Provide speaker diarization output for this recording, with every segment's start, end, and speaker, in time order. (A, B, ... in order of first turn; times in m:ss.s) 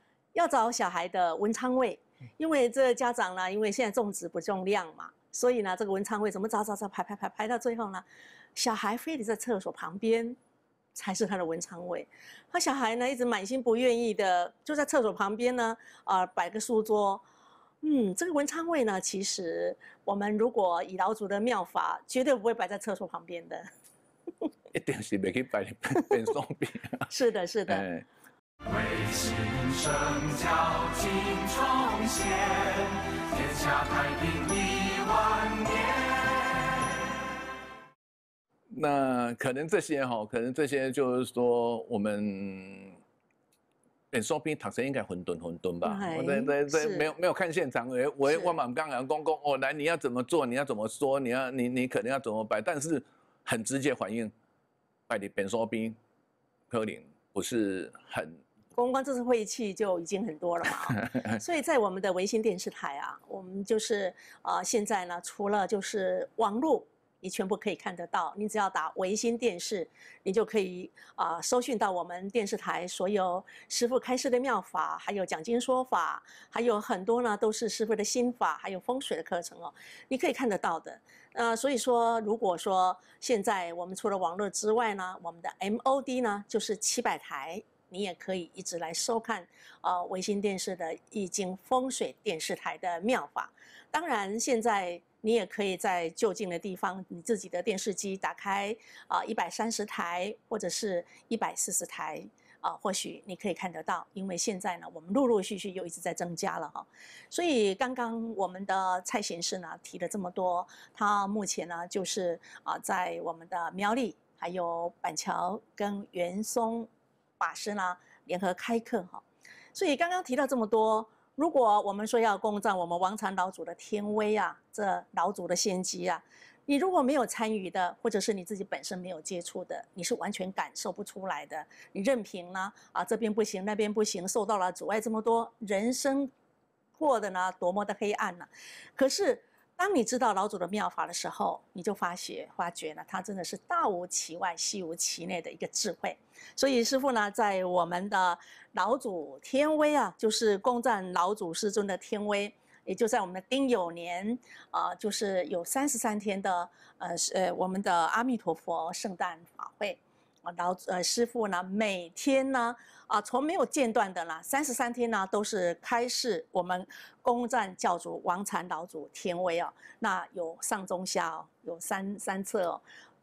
0:00.3-0:08.0 A
0:08.5-0:10.4 A
0:10.9-0:17.2 A
0:17.8-0:23.6 A
0:24.7-0:27.1 B
0:27.1-0:27.8 A
0:27.7-0:28.0 B
0:28.6-0:36.8 C
0:38.7-0:43.0 B
0:44.1-0:54.3 B
0:45.8-0:47.1 A
0:55.1-0:56.0 B
0:56.7-0:58.4 B
0:58.7-1:56.9 A
1:01.0-1:01.3 B
1:57.4-2:16.3 A
2:17.0-2:52.8 A